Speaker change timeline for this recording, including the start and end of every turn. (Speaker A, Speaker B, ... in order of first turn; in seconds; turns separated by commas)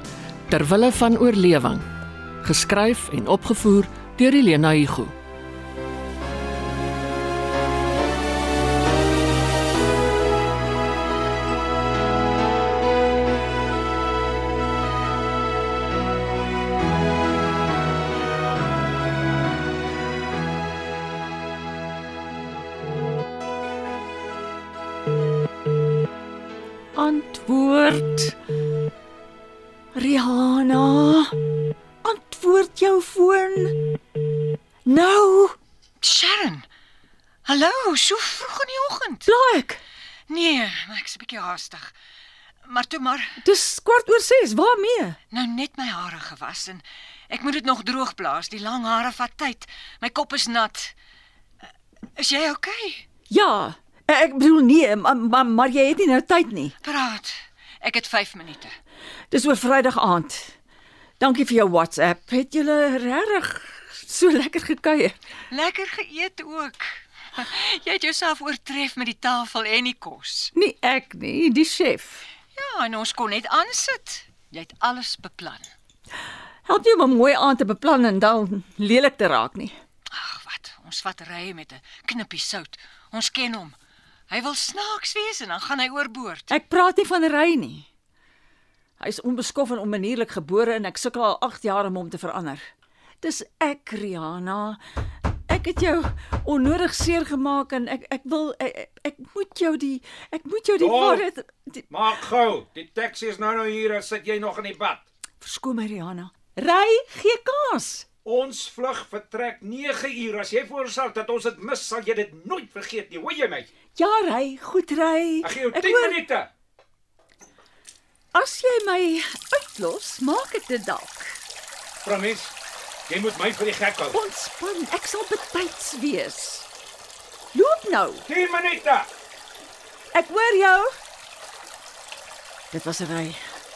Speaker A: 0.5-1.9, Speaker A: 2.4-5.1, Speaker B: 26.9-28.4, Speaker B: 29.9-31.4, Speaker B: 32.0-33.9, Speaker B: 34.9-35.6, Speaker C: 36.0-36.7, Speaker C: 37.5-39.3, Speaker B: 39.3-39.8, Speaker C: 40.3-41.9, Speaker C: 42.7-43.4, Speaker B: 43.4-45.2, Speaker C: 45.3-50.9, Speaker C: 52.2-53.1, Speaker B: 53.3-56.8, Speaker C: 56.8-58.7, Speaker B: 59.3-60.5, Speaker B: 61.2-65.2, Speaker C: 65.5-70.5, Speaker B: 70.5-72.2, Speaker C: 72.5-75.7, Speaker B: 76.7-79.7, Speaker C: 80.1-83.8, Speaker C: 84.3-86.5, Speaker B: 86.5-87.9, Speaker B: 89.0-92.7, Speaker B: 93.2-94.8, Speaker B: 95.5-101.8, Speaker D: 100.8-101.2, Speaker D: 101.9-105.0, Speaker B: 105.4-108.1, Speaker D: 108.2-113.7, Speaker B: 114.0-116.2, Speaker D: 115.4-116.5, Speaker B: 118.3-121.4, Speaker D: 122.0-122.5, Speaker D: 123.1-124.2, Speaker B: 124.1-126.7, Speaker B: 127.5-128.3, Speaker D: 128.3-129.1, Speaker B: 130.1-130.9, Speaker B: 132.7-133.4